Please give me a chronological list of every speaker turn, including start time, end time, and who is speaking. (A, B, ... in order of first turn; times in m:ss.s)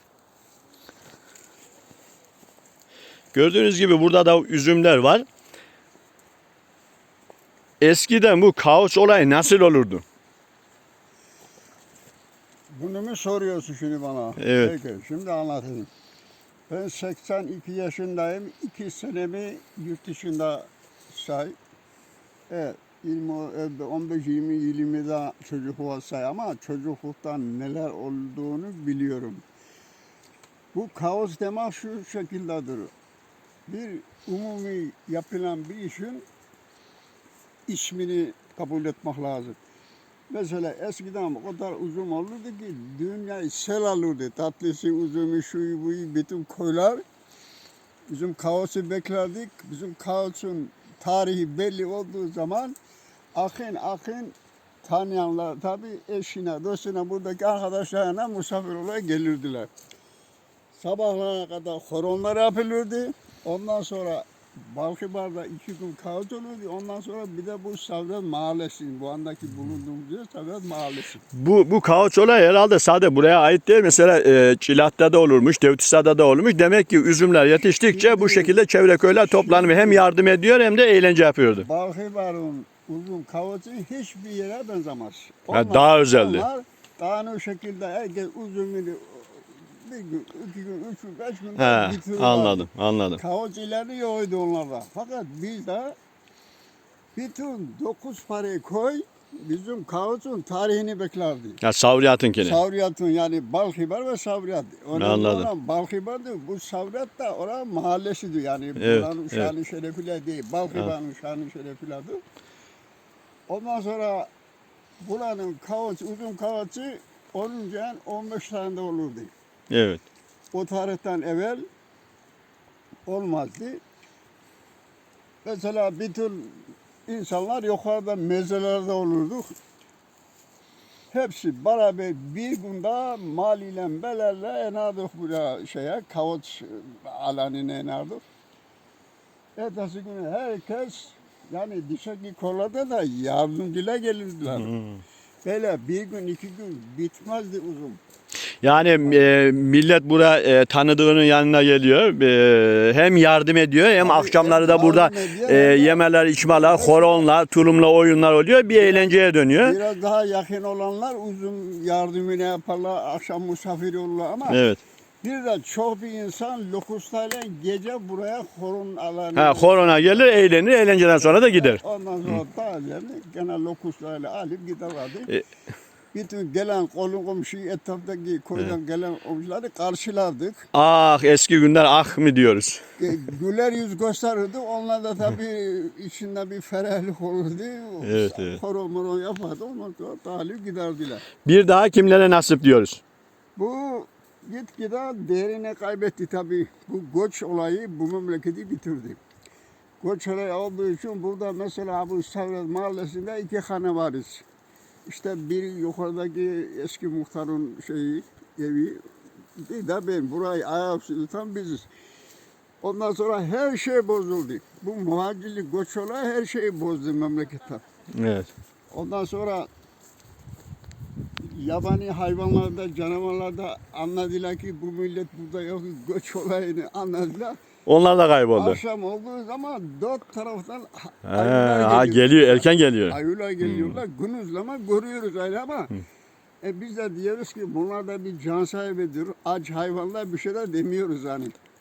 0:03.3-0:05.3 A
0:07.8-0:10.0 A
0:12.7-0:15.9 B
0:14.4-0:14.8 A
0:16.7-0:21.6 B
0:22.5-0:29.4 B
0:30.7-0:32.9 B
0:33.7-0:36.3 B
0:37.7-0:39.6 B
0:40.3-0:47.0 B
0:48.1-0:52.8 B
0:53.4-0:59.7 B
1:00.7-1:11.2 B
1:11.3-1:21.7 A
1:17.8-1:18.6 B
1:19.1-1:20.0 B
1:21.6-1:36.0 B
1:25.5-1:26.5 A
1:31.6-1:33.2 A
1:37.2-1:41.6 B
1:41.6-1:42.6 A
1:42.4-1:52.2 B
1:45.0-1:45.5 A
1:48.8-1:49.5 A
1:53.5-1:54.3 B
1:55.0-1:59.3 B
1:59.7-2:00.0 A
2:00.5-2:01.6 B
2:03.1-2:03.8 B
2:05.4-2:09.6 B
2:11.1-2:18.2 B
2:19.6-2:24.7 B
2:24.5-2:25.0 A
2:25.4-2:28.0 B
2:28.6-2:39.8 A
2:34.0-2:37.3 B
2:38.7-2:44.6 B
2:44.5-2:44.8 A
2:45.2-2:50.5 B
2:49.4-2:52.4 A
2:51.1-2:55.3 B
2:56.1-3:00.7 B
3:00.7-3:02.8 A
3:03.0-3:11.2 B
3:08.0-3:08.6 A
3:11.4-3:13.0 A
3:13.6-3:19.2 B
3:20.0-3:24.4 B
3:25.1-3:29.0 B
3:29.6-3:31.9 B
3:32.8-3:37.8 B
3:38.1-3:38.5 A
3:38.9-3:39.7 B
3:41.4-3:47.6 B
3:47.9-3:48.8 A
3:48.5-3:55.9 B
3:51.2-3:54.0 A
3:56.6-4:01.6 B